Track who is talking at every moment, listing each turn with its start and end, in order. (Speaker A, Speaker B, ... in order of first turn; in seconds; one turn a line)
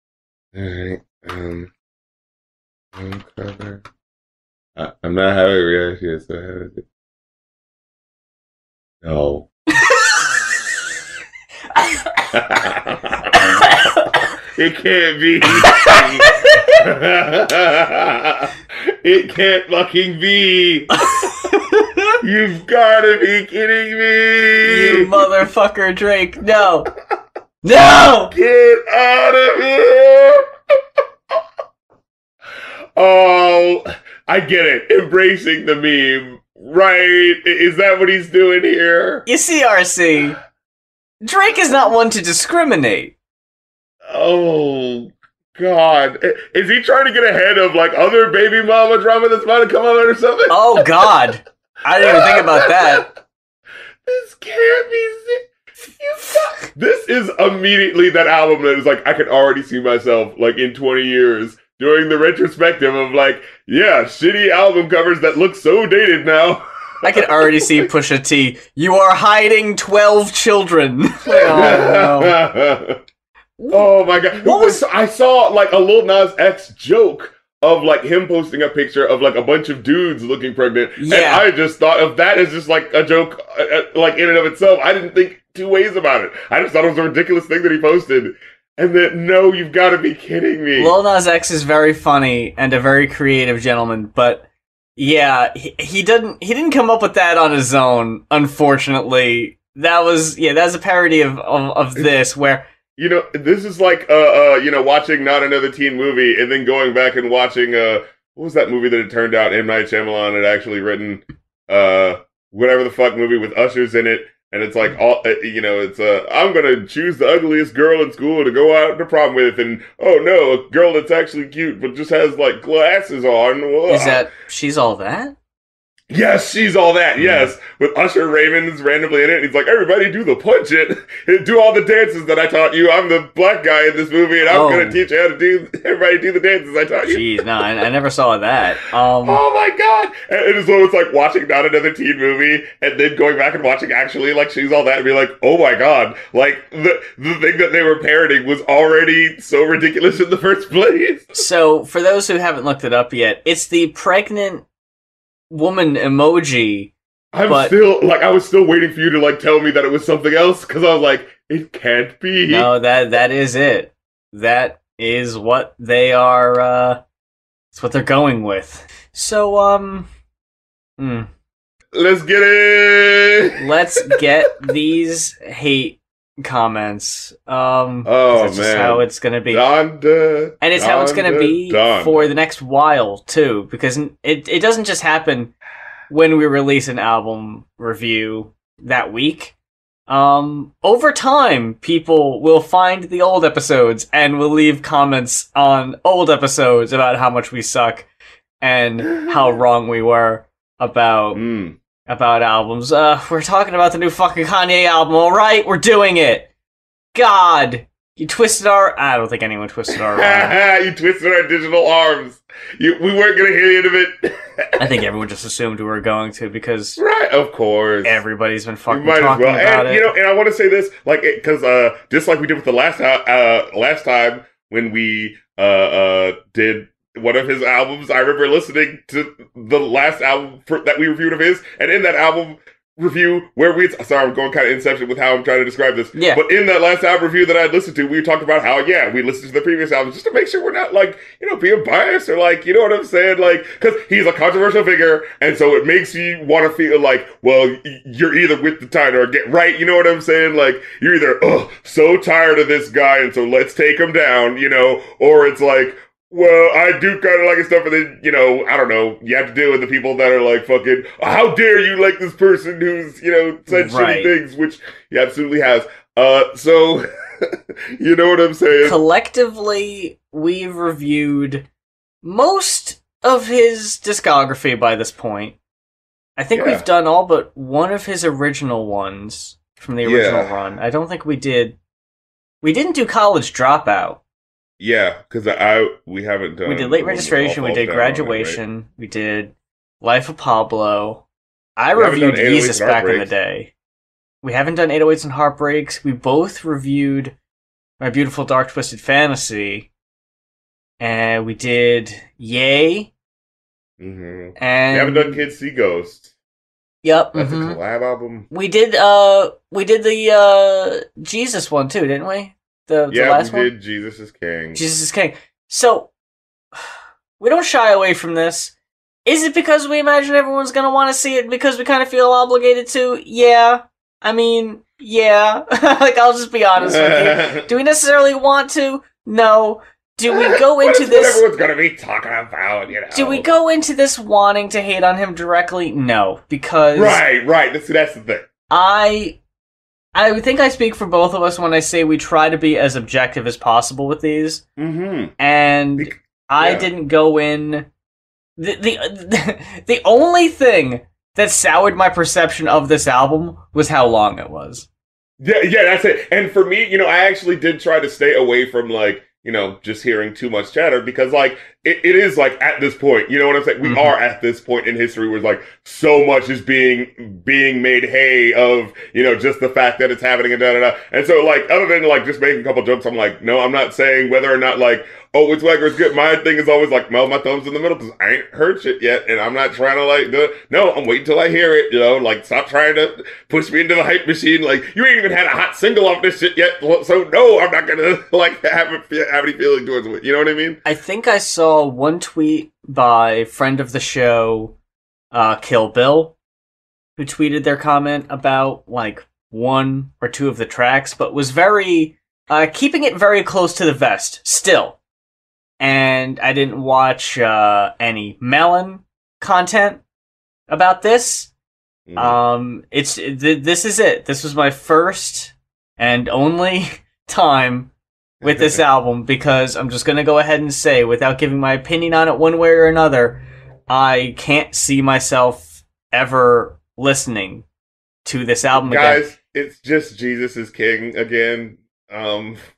Speaker A: 0.5-1.7
Speaker A: 3.0-3.8
Speaker A: 4.8-6.8
Speaker A: 9.0-9.4
Speaker B: 9.8-10.3
Speaker B: 11.7-12.3
Speaker A: 12.3-13.7
Speaker B: 13.4-14.2
Speaker A: 14.5-21.0
Speaker B: 15.6-16.7
Speaker B: 21.0-22.2
Speaker A: 22.2-25.1
Speaker B: 24.7-26.9
Speaker B: 27.6-28.3
Speaker A: 28.3-30.4
Speaker A: 33.0-39.2
Speaker B: 39.2-40.4
Speaker B: 41.2-43.1
Speaker A: 44.1-51.2
Speaker B: 50.5-53.0
Speaker A: 52.0-53.1
Speaker A: 54.0-55.5
Speaker A: 56.0-67.8
Speaker B: 67.0-72.3
Speaker A: 71.3-73.0
Speaker B: 73.6-74.8
Speaker A: 73.7-90.9
Speaker B: 81.0-81.5
Speaker B: 90.8-94.4
Speaker B: 95.0-102.7
Speaker A: 103.0-124.2
Speaker B: 123.9-125.3
Speaker A: 126.1-137.2
Speaker B: 127.2-127.5
Speaker B: 134.4-135.0
Speaker B: 137.1-139.4
Speaker A: 139.2-151.4
Speaker B: 151.3-154.7
Speaker B: 155.5-156.9
Speaker A: 157.3-162.7
Speaker B: 157.5-157.7
Speaker B: 162.5-167.0
Speaker B: 167.7-170.1
Speaker B: 171.0-171.3
Speaker A: 171.9-173.5
Speaker B: 173.6-179.6
Speaker A: 178.0-182.3
Speaker B: 180.6-185.5
Speaker B: 186.1-189.5
Speaker B: 190.1-198.1
Speaker B: 198.6-201.4
Speaker A: 201.3-201.8
Speaker B: 202.1-206.5
Speaker B: 207.1-210.6
Speaker A: 209.9-214.3
Speaker B: 214.8-217.0
Speaker A: 217.0-218.2
Speaker B: 218.0-220.1
Speaker A: 218.9-267.0
Speaker B: 236.1-236.4
Speaker B: 263.7-264.3
Speaker A: 268.0-269.0
Speaker B: 268.8-271.6
Speaker B: 272.2-275.6
Speaker B: 276.4-281.8
Speaker A: 276.5-276.8
Speaker A: 280.0-280.6
Speaker B: 282.6-284.2
Speaker A: 284.8-288.6
Speaker B: 286.6-291.2
Speaker B: 291.8-293.7
Speaker A: 291.9-293.3
Speaker B: 294.4-297.3
Speaker B: 298.0-299.9
Speaker B: 301.0-303.1
Speaker A: 304.0-306.3
Speaker B: 304.6-305.4
Speaker B: 307.0-307.8
Speaker A: 307.3-308.4
Speaker B: 308.5-313.7
Speaker A: 313.1-314.8
Speaker B: 314.7-316.1
Speaker B: 316.7-318.7
Speaker B: 319.2-331.4
Speaker A: 326.8-327.7
Speaker A: 330.3-333.5
Speaker B: 333.1-337.2
Speaker A: 336.9-338.4
Speaker B: 338.7-339.4
Speaker B: 340.1-344.6
Speaker A: 344.8-345.3
Speaker B: 345.4-347.9
Speaker A: 346.0-346.9
Speaker B: 348.6-354.9
Speaker A: 355.4-390.8
Speaker B: 363.8-364.1
Speaker B: 390.8-394.7
Speaker B: 395.3-396.3
Speaker B: 397.2-405.0
Speaker B: 405.8-410.0
Speaker B: 410.7-411.5
Speaker A: 412.1-412.4
Speaker B: 412.1-417.9
Speaker B: 418.4-427.6
Speaker A: 418.4-418.8
Speaker B: 428.2-429.2
Speaker A: 428.7-432.6